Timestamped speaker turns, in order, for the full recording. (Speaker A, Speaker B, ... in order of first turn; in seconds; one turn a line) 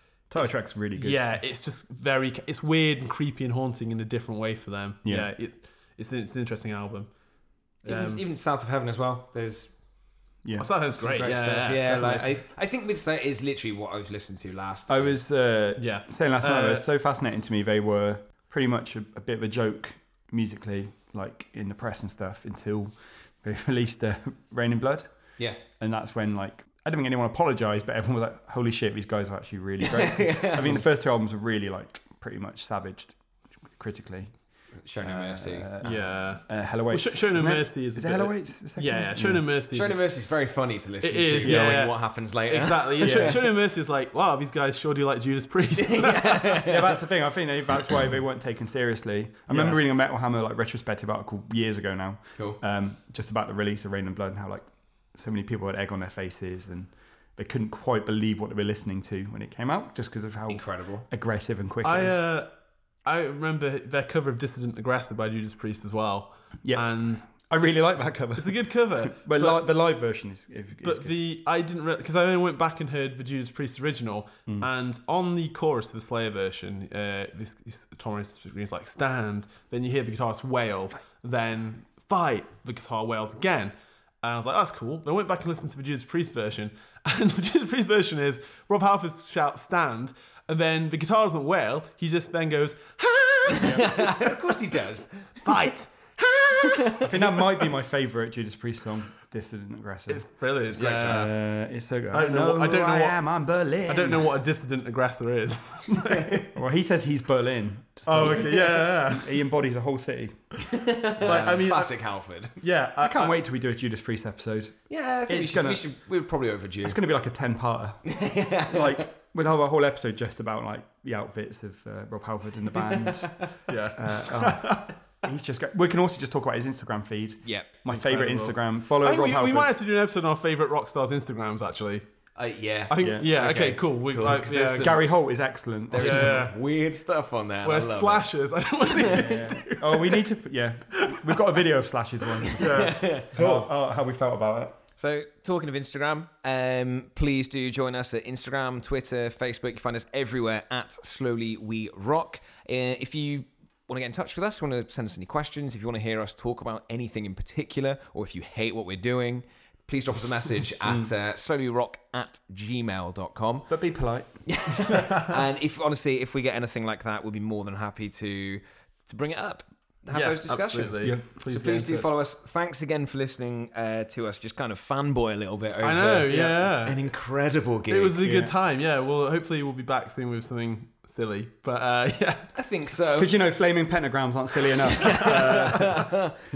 Speaker A: 0.3-1.4
Speaker B: 0.3-7.1
Speaker A: 5.0-5.3
Speaker B: 7.8-8.2
Speaker C: 7.8-9.7
Speaker A: 10.4-11.2
Speaker B: 10.6-12.3
Speaker C: 11.0-15.1
Speaker A: 14.9-25.1
Speaker B: 15.8-16.8
Speaker A: 25.8-33.1
Speaker C: 29.8-30.8
Speaker A: 33.7-34.3
Speaker C: 34.8-35.7
Speaker A: 35.0-39.4
Speaker B: 35.8-40.0
Speaker C: 39.7-43.4
Speaker B: 41.0-46.6
Speaker A: 41.4-41.7
Speaker A: 43.0-43.4
Speaker C: 45.8-47.0
Speaker A: 46.6-62.2
Speaker B: 49.5-49.8
Speaker C: 60.5-61.1
Speaker B: 61.8-62.5
Speaker B: 63.0-67.8
Speaker A: 66.6-71.1
Speaker B: 68.3-69.7
Speaker B: 70.8-94.6
Speaker C: 93.5-95.6
Speaker B: 95.4-97.6
Speaker A: 97.0-100.2
Speaker B: 100.1-101.3
Speaker C: 100.7-101.3
Speaker A: 101.1-104.3
Speaker B: 102.1-103.2
Speaker B: 103.8-106.5
Speaker C: 106.1-106.4
Speaker A: 106.5-110.4
Speaker B: 108.0-109.3
Speaker C: 110.6-112.6
Speaker B: 111.2-111.9
Speaker B: 112.6-113.3
Speaker A: 113.0-115.8
Speaker C: 114.9-117.0
Speaker A: 116.8-118.1
Speaker C: 118.0-119.0
Speaker A: 118.7-123.3
Speaker C: 122.7-123.5
Speaker B: 123.7-124.9
Speaker A: 123.9-129.7
Speaker C: 127.4-127.7
Speaker B: 127.9-132.1
Speaker C: 132.3-135.0
Speaker B: 132.9-135.0
Speaker A: 133.0-133.3
Speaker A: 134.7-136.5
Speaker C: 135.9-138.3
Speaker B: 135.9-136.6
Speaker B: 137.6-140.2
Speaker C: 138.8-139.4
Speaker A: 139.1-144.8
Speaker B: 141.0-141.4
Speaker B: 142.5-143.7
Speaker C: 142.6-143.3
Speaker C: 145.0-163.7
Speaker A: 163.7-164.3
Speaker C: 164.4-178.2
Speaker B: 164.9-165.4
Speaker B: 170.1-172.1
Speaker B: 175.8-177.1
Speaker A: 176.3-176.7
Speaker B: 177.9-182.5
Speaker A: 178.2-178.5
Speaker C: 182.5-183.3
Speaker A: 183.2-186.1
Speaker C: 184.9-186.3
Speaker B: 185.2-185.8